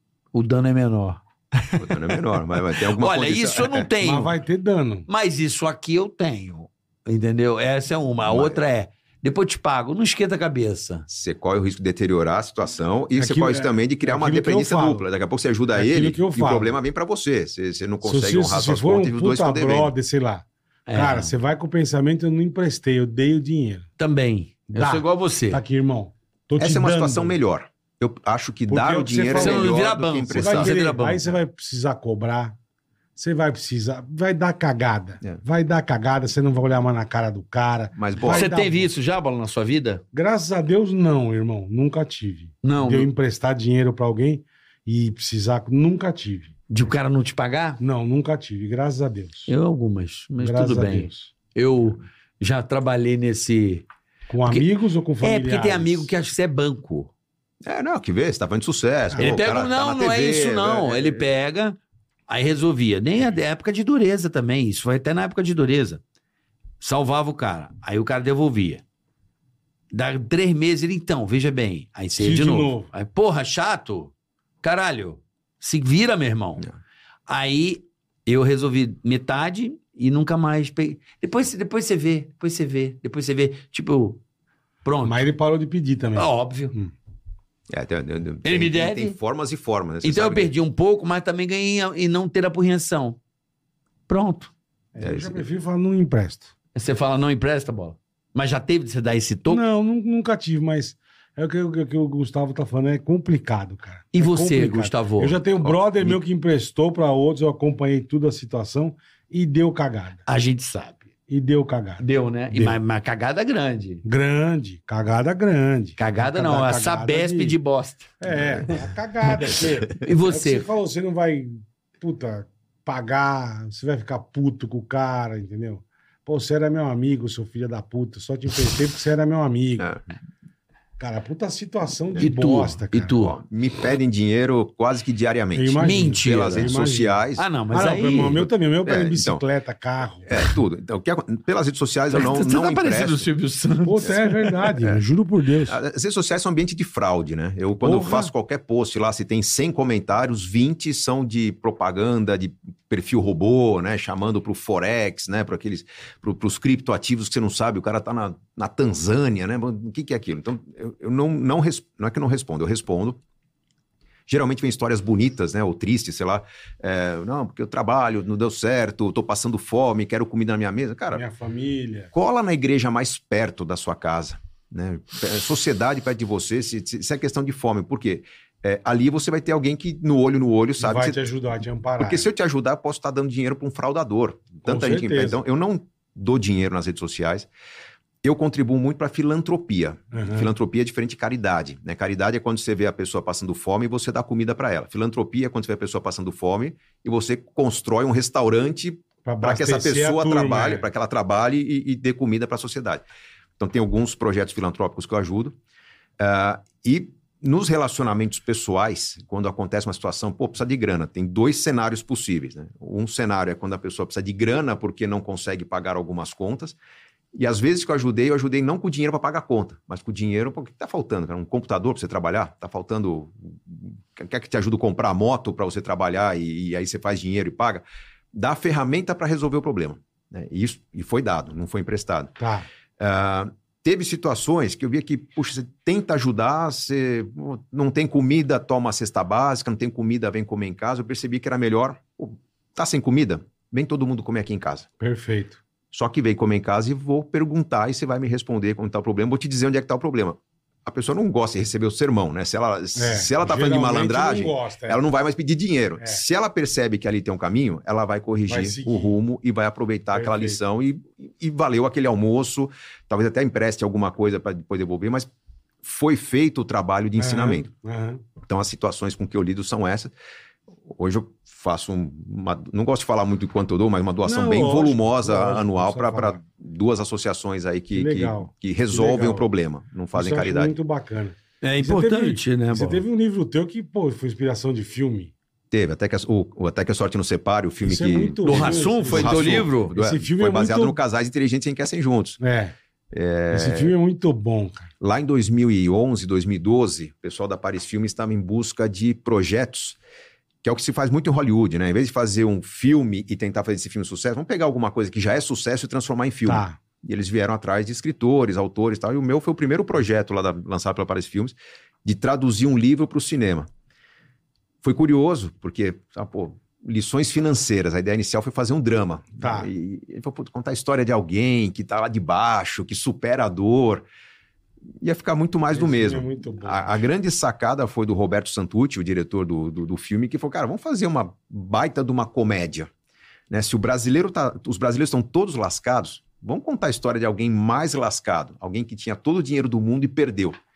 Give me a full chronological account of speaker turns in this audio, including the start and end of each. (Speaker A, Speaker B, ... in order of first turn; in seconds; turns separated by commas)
Speaker A: 0.3-4.3, Speaker B: 1.8-3.9, Speaker C: 4.0-5.1, Speaker A: 5.1-11.1, Speaker B: 8.3-8.6, Speaker B: 11.1-19.9, Speaker C: 13.2-15.1, Speaker C: 15.8-16.8, Speaker C: 18.0-23.9, Speaker A: 20.9-21.3, Speaker A: 24.0-25.6, Speaker C: 24.7-27.4, Speaker B: 26.6-30.7, Speaker C: 28.7-29.8, Speaker A: 29.3-31.4, Speaker C: 30.3-32.6, Speaker C: 33.2-38.9, Speaker B: 38.0-38.5, Speaker A: 38.3-40.0, Speaker C: 40.1-46.5, Speaker A: 42.6-43.1, Speaker A: 46.7-47.8, Speaker C: 47.8-49.5, Speaker A: 49.5-53.9, Speaker C: 50.4-51.3, Speaker C: 54.3-56.1, Speaker A: 54.5-54.7, Speaker A: 55.2-57.1, Speaker B: 57.7-61.3, Speaker A: 59.2-66.0, Speaker A: 66.8-68.8, Speaker A: 69.9-76.7, Speaker C: 72.2-72.9, Speaker A: 77.3-84.2, Speaker A: 84.8-85.3, Speaker C: 85.0-86.9, Speaker A: 86.2-86.7, Speaker B: 87.7-90.5, Speaker A: 88.5-89.2, Speaker A: 90.0-93.2, Speaker A: 94.1-94.5, Speaker C: 95.0-96.5, Speaker B: 95.0-95.4, Speaker A: 96.8-99.6, Speaker C: 99.5-110.2, Speaker A: 104.1-106.2, Speaker A: 110.3-111.0, Speaker C: 111.3-112.8, Speaker A: 112.0-114.0, Speaker C: 114.0-117.6, Speaker A: 116.0-118.7, Speaker C: 118.2-129.9, Speaker A: 119.4-120.7, Speaker C: 131.0-133.2, Speaker A: 132.2-133.4, Speaker B: 133.2-137.4, Speaker C: 135.6-140.3, Speaker A: 135.8-136.7, Speaker A: 137.4-138.5, Speaker B: 138.8-139.4, Speaker B: 140.3-143.3, Speaker A: 142.1-144.6, Speaker C: 143.8-145.8, Speaker B: 145.7-163.2, Speaker C: 147.8-148.3, Speaker B: 164.3-171.2, Speaker C: 171.1-172.1, Speaker B: 172.1-181.3, Speaker C: 180.8-182.3, Speaker B: 182.0-187.5, Speaker C: 184.7-185.4, Speaker B: 188.2-203.0, Speaker C: 190.1-190.5, Speaker C: 199.2-200.9, Speaker B: 203.6-205.6, Speaker B: 206.2-216.8, Speaker B: 217.3-232.4, Speaker C: 232.4-232.7, Speaker B: 233.0-244.9, Speaker C: 245.0-245.6, Speaker B: 245.9-265.3, Speaker C: 253.0-255.0, Speaker C: 258.5-259.2, Speaker C: 260.1-260.6, Speaker B: 265.8-267.7, Speaker C: 267.2-268.2, Speaker B: 268.4-270.1, Speaker B: 270.9-280.8, Speaker C: 274.2-276.4, Speaker C: 277.9-279.5, Speaker C: 280.1-285.3, Speaker A: 281.6-283.0, Speaker B: 285.7-292.4, Speaker C: 287.8-291.0, Speaker A: 288.4-289.9, Speaker C: 292.4-292.7, Speaker B: 293.1-293.9, Speaker C: 293.5-294.9, Speaker B: 295.0-300.0, Speaker B: 300.6-313.7, Speaker C: 306.5-306.8, Speaker B: 314.8-324.1, Speaker C: 319.4-319.7, Speaker B: 325.0-332.9, Speaker C: 325.7-327.1, Speaker B: 333.5-340.6